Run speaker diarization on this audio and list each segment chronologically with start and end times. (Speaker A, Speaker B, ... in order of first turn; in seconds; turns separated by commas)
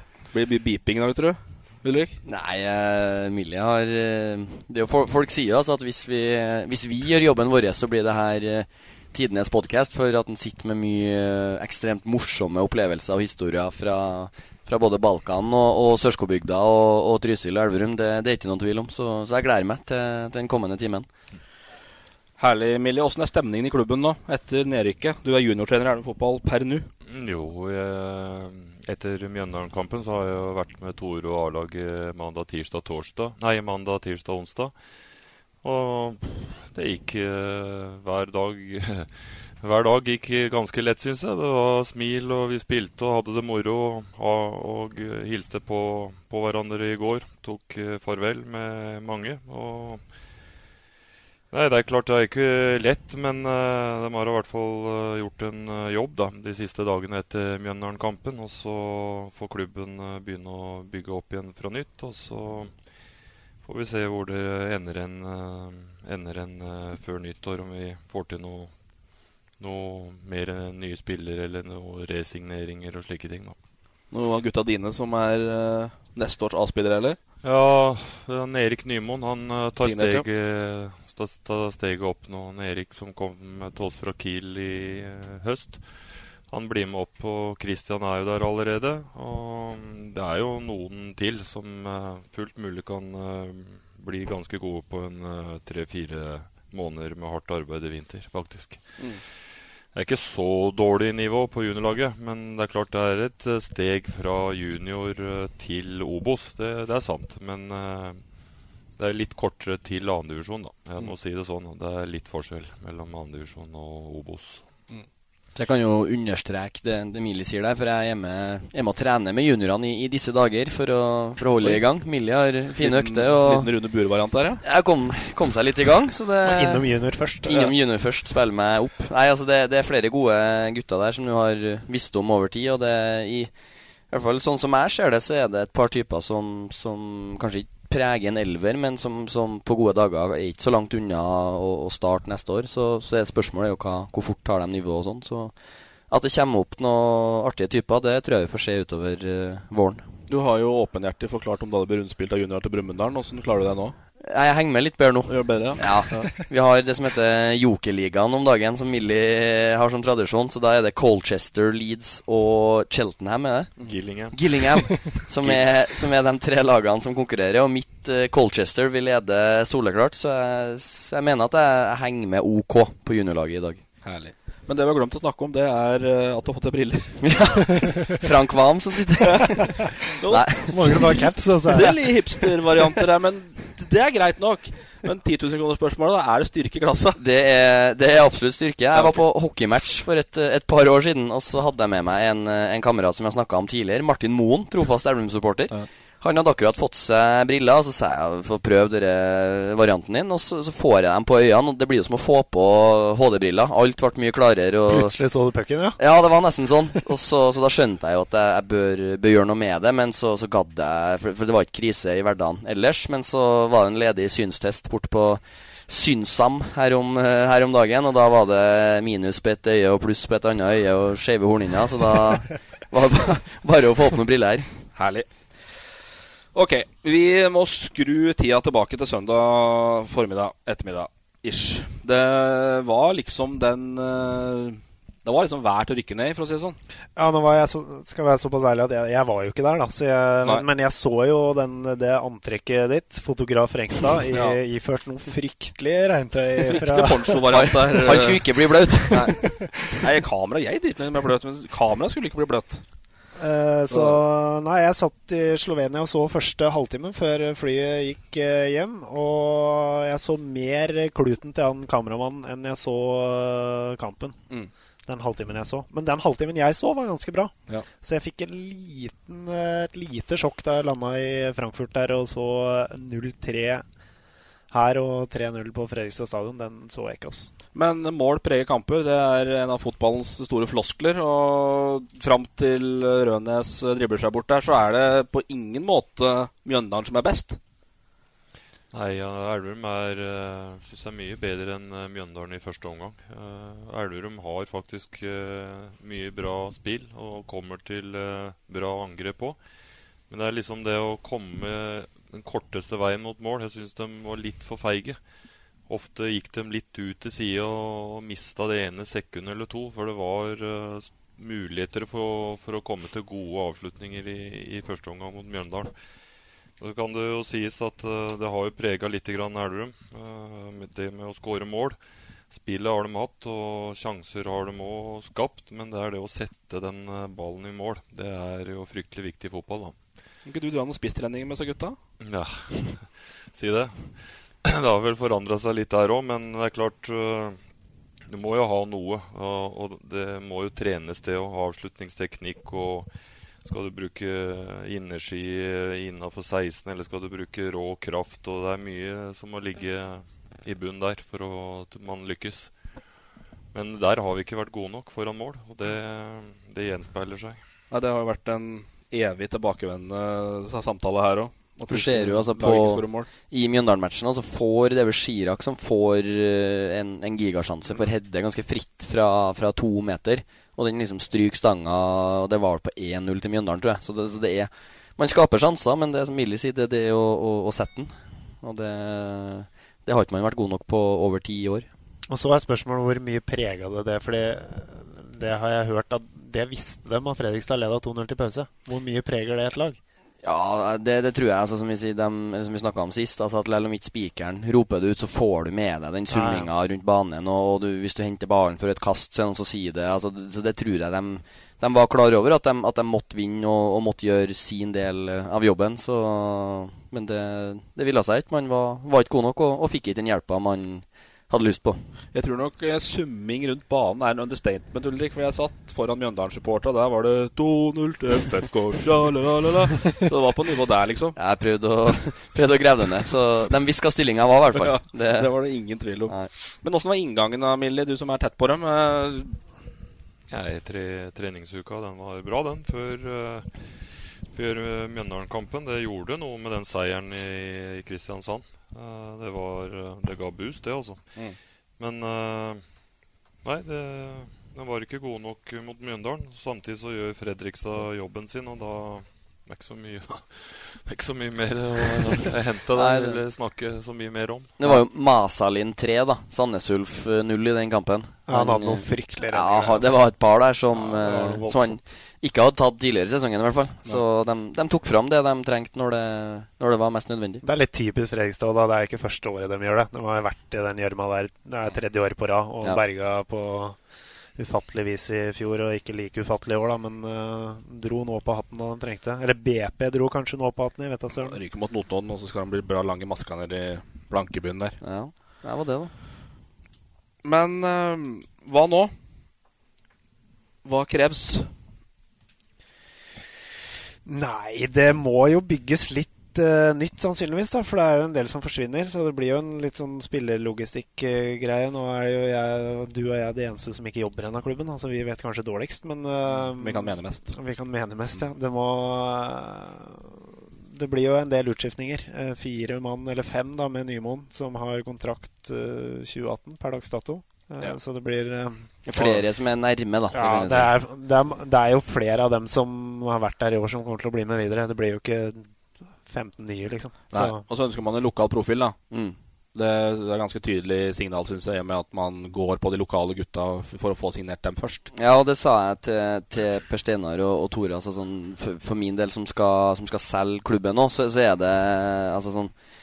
Speaker A: 0.3-2.1, Speaker B: 2.2-21.1, Speaker A: 22.4-26.9, Speaker C: 27.1-34.7, Speaker C: 35.6-50.0, Speaker C: 51.5-62.7, Speaker C: 63.7-68.7, Speaker C: 69.6-73.6, Speaker A: 74.1-77.2, Speaker C: 77.4-85.9, Speaker A: 79.8-80.2, Speaker C: 86.5-99.0, Speaker C: 99.9-108.2, Speaker C: 109.0-114.7, Speaker B: 115.5-123.7, Speaker A: 122.8-124.6, Speaker B: 124.6-126.8, Speaker D: 126.4-127.7, Speaker B: 127.4-133.5, Speaker B: 134.1-145.6, Speaker B: 146.1-150.1, Speaker A: 150.3-153.9, Speaker B: 154.2-163.7, Speaker A: 155.3-156.3, Speaker C: 163.9-164.9, Speaker B: 164.3-173.8, Speaker A: 165.4-165.8, Speaker A: 174.0-177.3, Speaker B: 177.2-180.9, Speaker A: 180.0-181.0, Speaker D: 180.7-182.0, Speaker A: 181.6-187.2, Speaker B: 187.2-205.2, Speaker A: 188.9-189.2, Speaker D: 204.9-206.0, Speaker B: 206.0-224.7, Speaker A: 224.9-225.3, Speaker A: 226.5-236.8, Speaker D: 237.2-247.5, Speaker A: 244.3-244.6, Speaker A: 246.7-248.4, Speaker B: 247.5-249.3, Speaker A: 249.1-252.8, Speaker D: 253.4-264.4, Speaker A: 253.9-254.2, Speaker D: 265.1-273.8, Speaker D: 274.7-277.5, Speaker A: 277.8-287.6, Speaker C: 288.9-299.6, Speaker C: 300.3-305.2, Speaker C: 305.9-315.9, Speaker C: 316.8-322.0, Speaker C: 322.5-330.0, Speaker A: 330.4-332.0, Speaker C: 332.2-337.6, Speaker C: 338.3-343.1, Speaker C: 343.6-352.7, Speaker C: 353.7-357.6, Speaker A: 357.9-363.3, Speaker B: 361.9-381.9, Speaker D: 382.3-390.0, Speaker B: 390.4-412.1, Speaker D: 396.3-396.7, Speaker A: 412.3-421.4, Speaker B: 421.4-425.5, Speaker A: 424.8-429.6, Speaker C: 430.5-441.3, Speaker C: 442.0-442.9, Speaker C: 443.6-454.8, Speaker B: 452.9-453.4, Speaker B: 454.8-467.6, Speaker D: 458.5-460.2, Speaker D: 460.9-462.1, Speaker D: 467.6-474.0, Speaker D: 474.6-481.6, Speaker A: 481.4-485.0, Speaker B: 485.0-486.1, Speaker A: 487.4-489.1, Speaker A: 490.8-491.7, Speaker D: 494.2-519.4, Speaker A: 506.5-507.5, Speaker B: 519.0-520.9, Speaker D: 520.3-525.7, Speaker D: 526.2-527.6, Speaker A: 527.3-529.0, Speaker B: 529.1-529.4, Speaker A: 529.7-535.1, Speaker B: 535.1-542.7